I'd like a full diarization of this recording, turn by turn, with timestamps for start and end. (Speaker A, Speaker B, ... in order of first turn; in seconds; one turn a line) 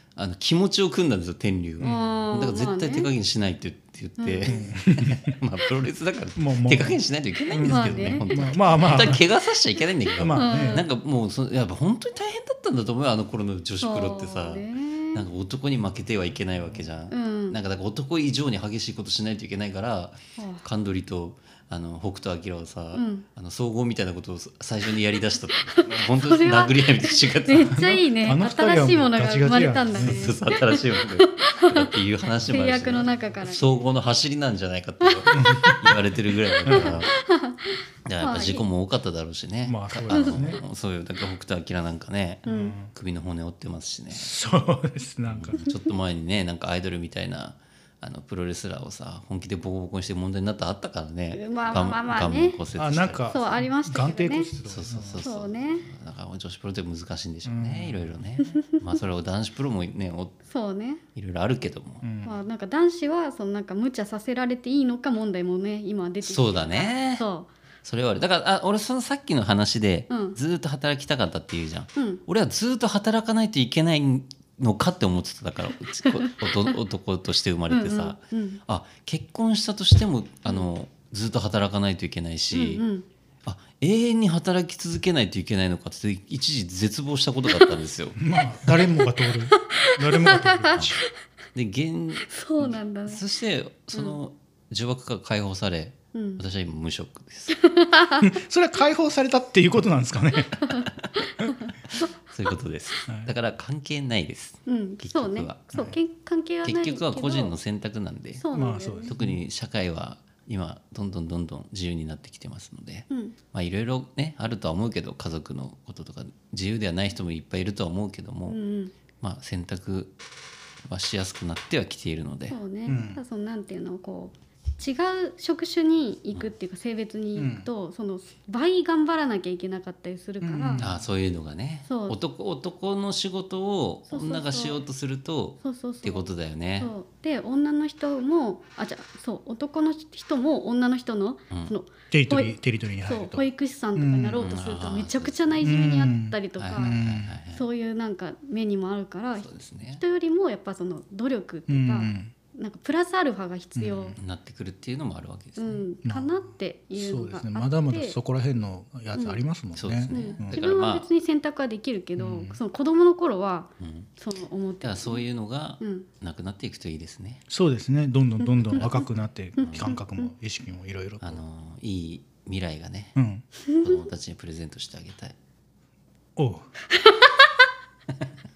Speaker A: 0.1-27.8
Speaker B: 1.8-3.1
Speaker B: 4.2-4.6
Speaker C: 4.4-5.3
Speaker C: 6.4-7.0
Speaker C: 7.5-9.2
Speaker B: 7.7-8.4
Speaker C: 10.2-10.8
Speaker B: 10.3-10.8
Speaker B: 13.8-15.2
Speaker B: 17.1-17.6
Speaker B: 20.4-20.6
Speaker B: 22.9-23.2
Speaker B: 25.6-31.9
Speaker C: 27.7-30.3
Speaker A: 29.9-37.1
Speaker B: 32.5-33.6
Speaker B: 35.0-35.9
Speaker C: 35.3-35.8
Speaker C: 36.6-37.0
Speaker B: 36.7-38.6
Speaker A: 38.0-44.3
Speaker C: 39.6-40.6
Speaker B: 42.5-42.8
Speaker C: 44.1-45.5
Speaker A: 45.2-53.3
Speaker B: 51.3-52.6
Speaker C: 52.7-55.2
Speaker B: 53.3-54.5
Speaker A: 54.6-60.4
Speaker B: 55.2-55.9
Speaker C: 57.4-58.1
Speaker B: 60.5-61.0
Speaker A: 61.1-62.0
Speaker C: 62.0-62.4
Speaker B: 62.2-67.5
Speaker A: 66.2-67.2
Speaker A: 67.8-82.8
Speaker B: 70.1-70.3
Speaker B: 76.2-76.7
Speaker B: 77.7-78.6
Speaker B: 82.5-83.0
Speaker A: 83.4-88.2
Speaker C: 88.2-91.0
Speaker B: 89.0-91.1
Speaker A: 91.5-97.6
Speaker B: 92.3-93.2
Speaker B: 96.1-96.4
Speaker B: 97.5-98.3
Speaker C: 98.2-100.6
Speaker B: 100.6-102.1
Speaker A: 102.0-105.7
Speaker B: 104.7-107.5
Speaker A: 106.6-108.5
Speaker B: 108.4-109.1
Speaker C: 108.5-109.4
Speaker A: 109.0-118.6
Speaker B: 113.1-113.3
Speaker B: 118.5-118.9
Speaker A: 119.2-120.1
Speaker A: 120.8-122.6
Speaker B: 122.5-130.8
Speaker C: 122.8-123.2
Speaker C: 127.3-127.7
Speaker C: 130.4-130.9
Speaker A: 130.8-136.9
Speaker B: 131.9-132.2
Speaker B: 134.1-134.8
Speaker B: 135.6-136.2
Speaker B: 136.8-147.0
Speaker C: 142.1-143.4
Speaker C: 143.9-144.5
Speaker A: 144.4-145.6
Speaker C: 145.6-147.3
Speaker A: 146.6-147.6
Speaker B: 147.5-154.2
Speaker A: 149.4-150.0
Speaker C: 151.7-152.3
Speaker C: 153.8-154.1
Speaker A: 154.1-155.8
Speaker B: 155.6-158.2
Speaker C: 156.0-160.6
Speaker B: 159.1-159.4
Speaker A: 159.7-161.1
Speaker B: 160.1-165.2
Speaker C: 162.2-162.6
Speaker A: 163.8-164.1
Speaker A: 164.8-167.4
Speaker B: 165.8-166.1
Speaker C: 167.5-171.4
Speaker A: 168.7-169.9
Speaker B: 169.6-170.3
Speaker A: 171.2-173.2
Speaker C: 173.2-173.4
Speaker B: 173.7-174.0
Speaker A: 173.8-175.3
Speaker C: 176.3-176.7
Speaker B: 176.9-177.5